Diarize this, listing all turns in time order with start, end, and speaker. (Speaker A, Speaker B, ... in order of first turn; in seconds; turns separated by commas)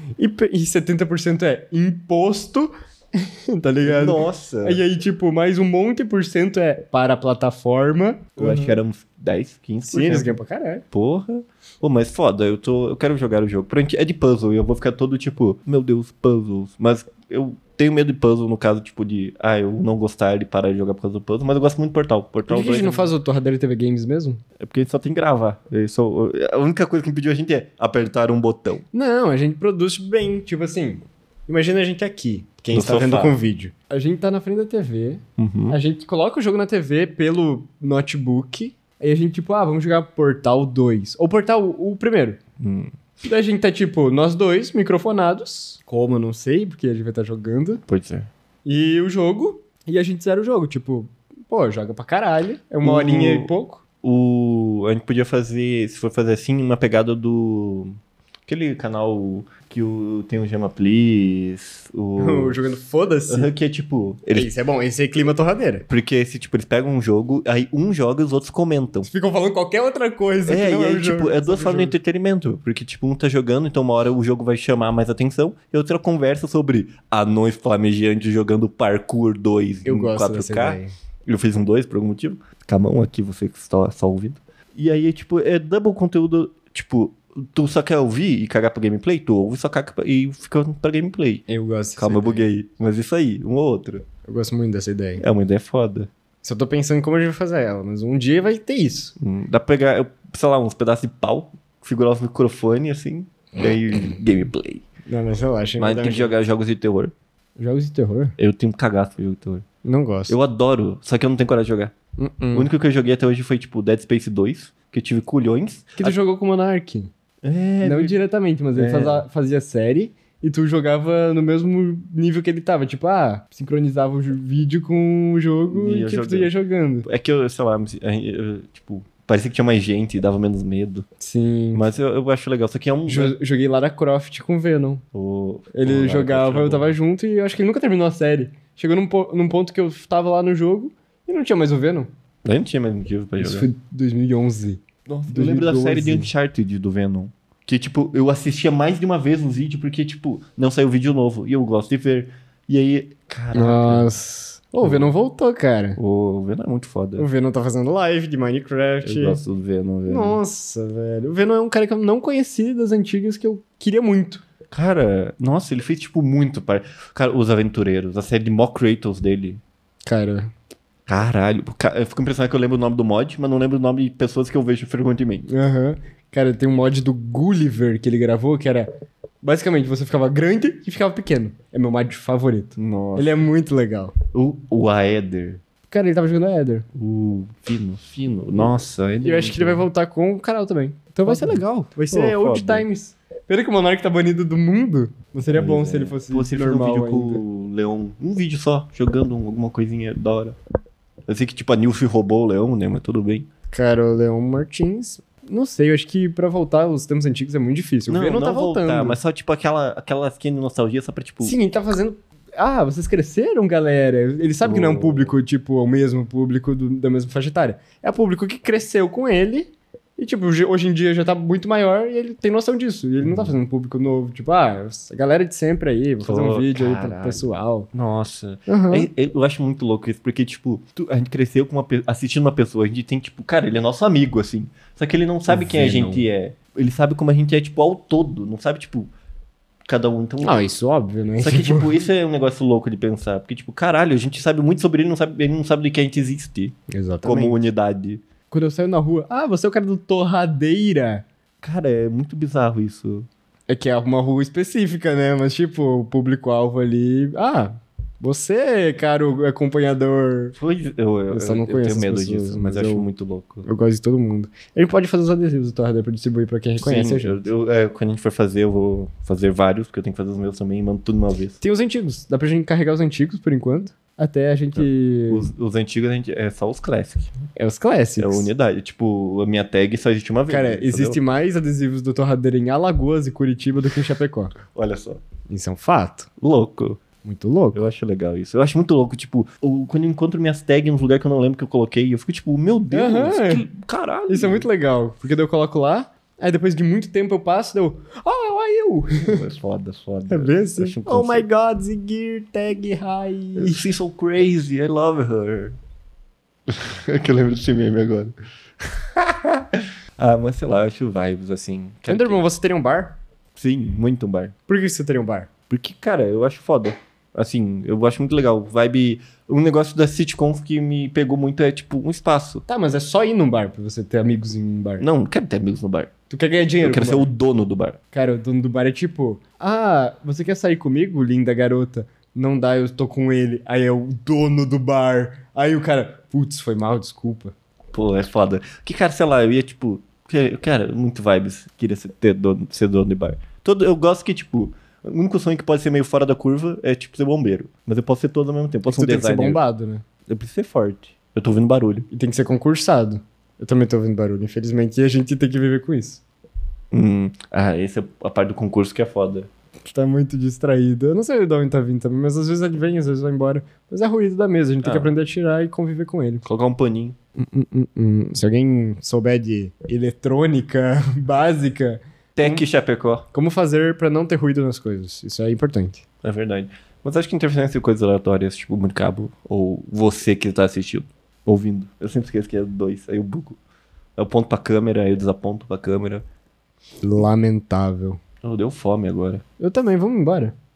Speaker A: 0.2-8.8, Speaker B: 3.8-4.8, Speaker B: 8.4-10.3, Speaker A: 9.9-10.8, Speaker B: 10.9-23.1, Speaker A: 22.5-24.4, Speaker B: 24.6-28.8, Speaker A: 28.9-42.4, Speaker B: 32.7-33.3, Speaker B: 35.4-35.8, Speaker B: 42.6-42.9, Speaker A: 43.2-47.8, Speaker B: 47.9-48.3, Speaker A: 48.6-53.8, Speaker B: 52.8-53.5, Speaker B: 54.0-57.9, Speaker B: 58.5-62.6, Speaker A: 62.2-63.5, Speaker B: 63.3-64.5, Speaker A: 64.3-65.8, Speaker B: 65.9-69.1, Speaker A: 69.0-71.9, Speaker B: 70.5-91.5, Speaker A: 79.8-80.9, Speaker A: 91.5-92.5, Speaker B: 92.0-94.0, Speaker A: 94.2-95.2, Speaker B: 95.2-96.1, Speaker A: 96.4-99.1, Speaker B: 99.2-104.8, Speaker A: 105.1-106.3, Speaker B: 105.8-107.1, Speaker A: 107.6-108.3, Speaker B: 108.4-109.6, Speaker A: 109.8-110.3, Speaker B: 110.3-111.9, Speaker A: 112.2-112.7, Speaker B: 112.5-116.2, Speaker A: 116.0-117.1, Speaker B: 117.4-118.2, Speaker A: 117.8-127.1, Speaker B: 118.7-119.2, Speaker B: 125.7-126.5, Speaker B: 127.0-131.1, Speaker A: 131.2-131.9, Speaker B: 131.7-133.3, Speaker A: 133.1-135.0, Speaker B: 135.1-136.9, Speaker A: 135.7-142.1, Speaker B: 142.4-143.7, Speaker A: 143.4-146.3, Speaker B: 145.1-154.1, Speaker A: 153.5-156.0, Speaker B: 154.8-155.1, Speaker B: 155.9-157.3, Speaker A: 157.2-159.4, Speaker B: 159.0-160.4, Speaker A: 160.1-164.4, Speaker B: 164.7-169.6, Speaker A: 170.1-170.5, Speaker B: 171.1-175.5, Speaker A: 175.5-178.9, Speaker A: 179.4-184.1, Speaker B: 182.8-183.4, Speaker B: 184.3-185.6, Speaker A: 185.9-186.9, Speaker B: 186.9-189.9, Speaker A: 189.2-197.4, Speaker B: 191.2-192.8, Speaker B: 195.4-200.6, Speaker B: 201.3-203.4, Speaker A: 203.7-209.2, Speaker B: 208.1-211.6, Speaker A: 211.4-227.9, Speaker B: 214.6-215.3, Speaker B: 223.2-223.6, Speaker B: 226.2-239.1, Speaker A: 228.7-229.1, Speaker A: 235.5-236.2, Speaker B: 239.9-240.6, Speaker A: 240.4-242.0, Speaker B: 241.4-248.2, Speaker A: 246.9-247.6, Speaker A: 248.5-251.2, Speaker B: 251.6-253.3, Speaker A: 253.7-260.6, Speaker B: 260.6-263.6, Speaker A: 261.3-263.1, Speaker A: 263.6-267.4, Speaker B: 266.8-271.6, Speaker A: 271.6-275.5, Speaker B: 274.8-277.3, Speaker A: 277.6-278.5, Speaker B: 278.2-281.2, Speaker A: 280.5-284.5, Speaker B: 284.7-285.2, Speaker A: 285.5-286.3, Speaker B: 286.4-287.0, Speaker A: 287.2-287.8, Speaker B: 287.7-294.6, Speaker A: 292.9-293.6, Speaker A: 294.3-299.4, Speaker B: 299.2-301.4, Speaker A: 300.3-303.9, Speaker B: 303.6-305.8, Speaker B: 306.7-312.4, Speaker A: 312.1-313.2, Speaker B: 313.6-314.5, Speaker A: 314.7-315.5, Speaker B: 315.7-322.6, Speaker A: 322.7-325.0, Speaker B: 325.0-326.1, Speaker A: 326.3-327.3, Speaker B: 326.8-328.0, Speaker A: 328.1-337.5, Speaker B: 337.9-349.6, Speaker A: 348.9-350.0, Speaker B: 350.3-352.1, Speaker A: 352.1-356.2, Speaker B: 356.9-359.5, Speaker A: 359.8-366.4, Speaker B: 364.8-365.1, Speaker B: 366.4-367.1, Speaker A: 367.4-372.6, Speaker B: 372.4-373.3, Speaker A: 373.3-376.0, Speaker B: 376.2-383.6, Speaker B: 384.2-386.2, Speaker A: 387.0-388.2, Speaker B: 388.4-389.4, Speaker A: 389.6-390.5